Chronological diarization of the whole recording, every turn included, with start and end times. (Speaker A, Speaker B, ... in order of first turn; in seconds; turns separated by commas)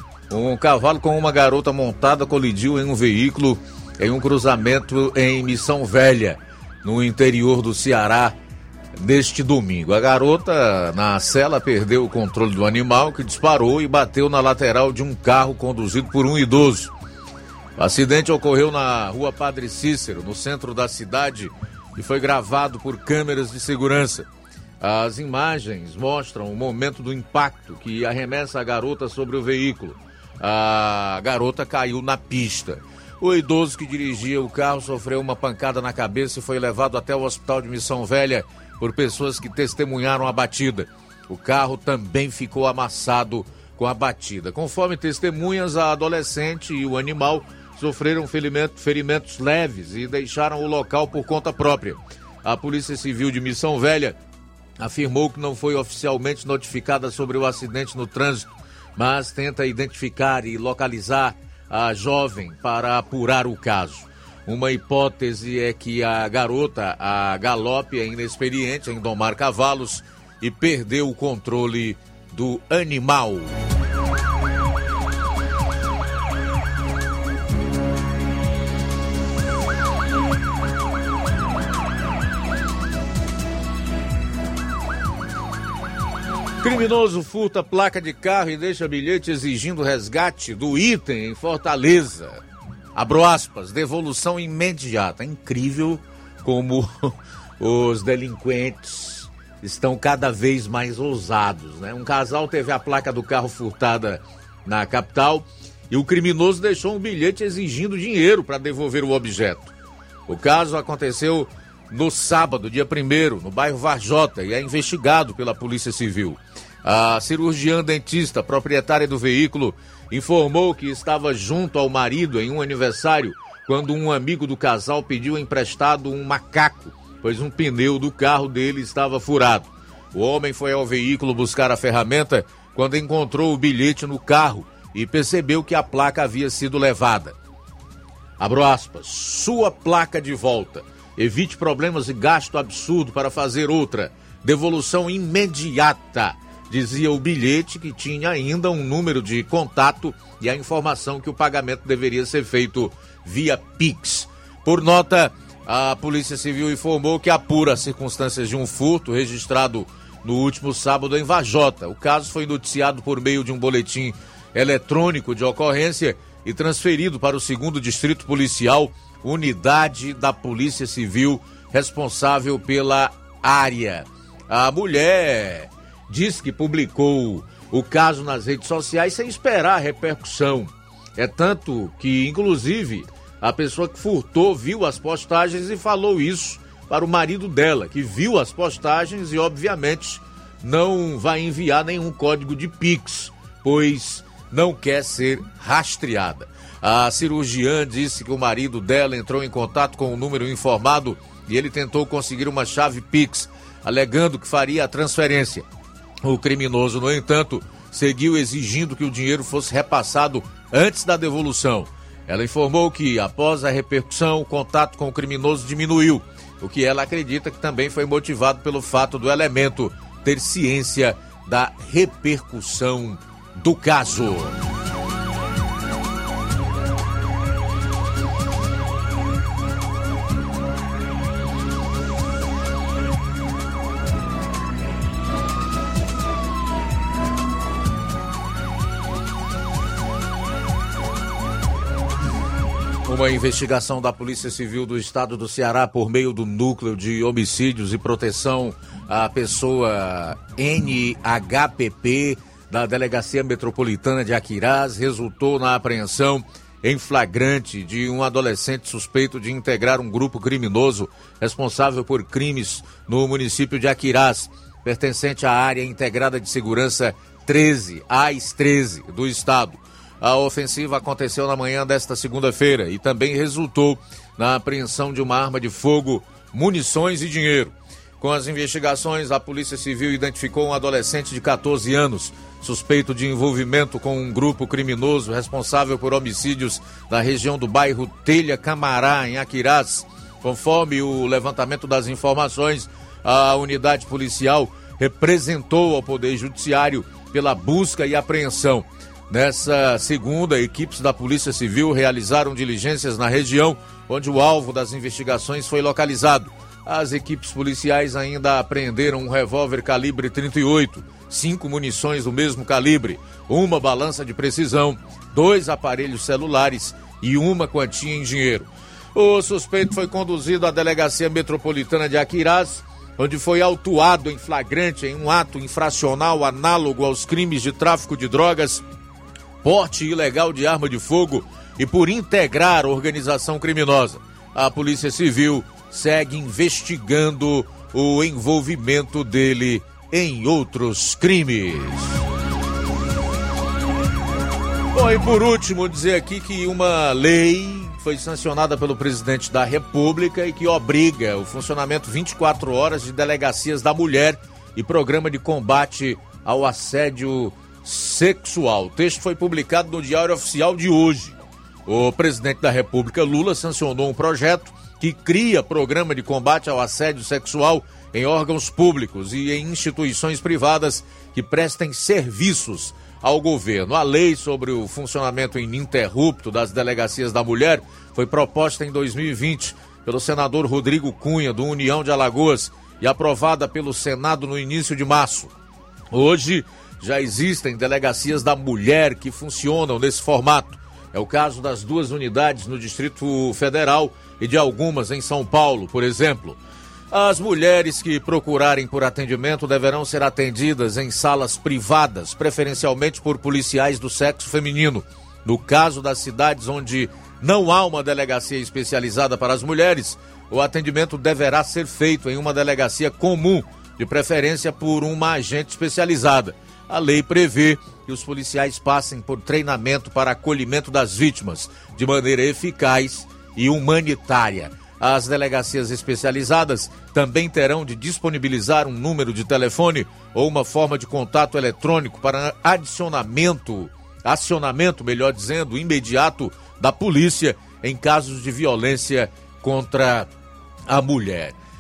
Speaker A: 0.3-8.4, Speaker A: 9.0-16.9, Speaker A: 17.8-24.3, Speaker A: 24.8-54.2, Speaker A: 54.8-73.5, Speaker A: 86.6-92.4, Speaker A: 93.0-109.7, Speaker A: 110.3-137.4, Speaker A: 138.4-205.7, Speaker A: 206.2-224.6, Speaker A: 243.1-328.8, Speaker A: 329.6-342.2, Speaker A: 344.9-385.5, Speaker A: 386.1-396.6, Speaker A: 397.1-440.3, Speaker A: 440.9-441.6